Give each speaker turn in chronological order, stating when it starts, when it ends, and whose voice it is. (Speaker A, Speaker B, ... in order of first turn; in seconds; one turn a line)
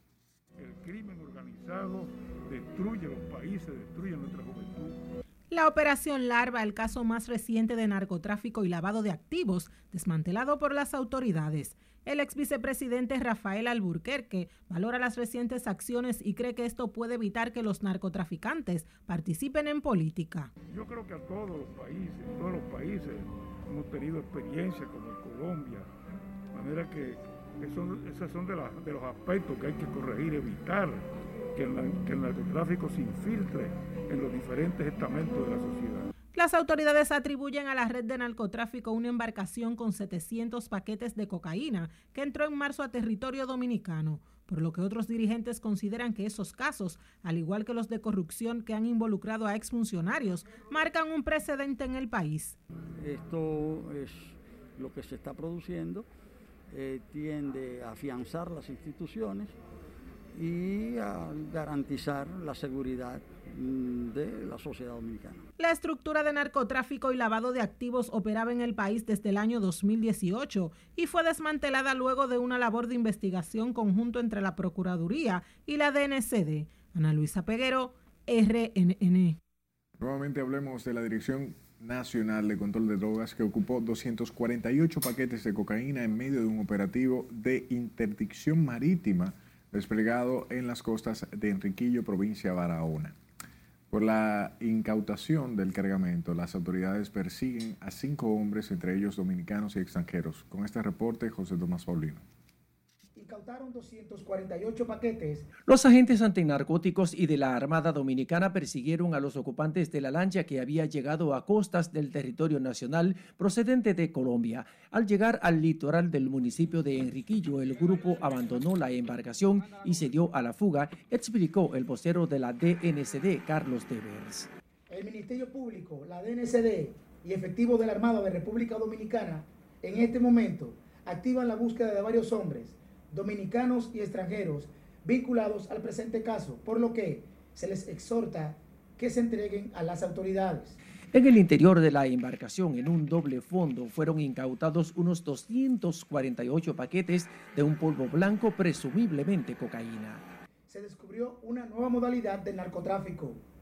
Speaker A: 0.6-5.0
Speaker B: 5.5-20.5
Speaker A: 20.7-25.9
Speaker A: 26.5-36.1
Speaker B: 36.3-52.6
Speaker C: 53.0-56.1
Speaker C: 56.7-59.6
Speaker C: 60.3-65.5
Speaker B: 65.6-79.4
Speaker D: 80.0-93.2
Speaker D: 93.9-102.2
Speaker E: 103.2-105.5
Speaker F: 105.7-124.5
Speaker E: 124.9-140.8
Speaker F: 141.1-150.2
Speaker E: 150.7-153.4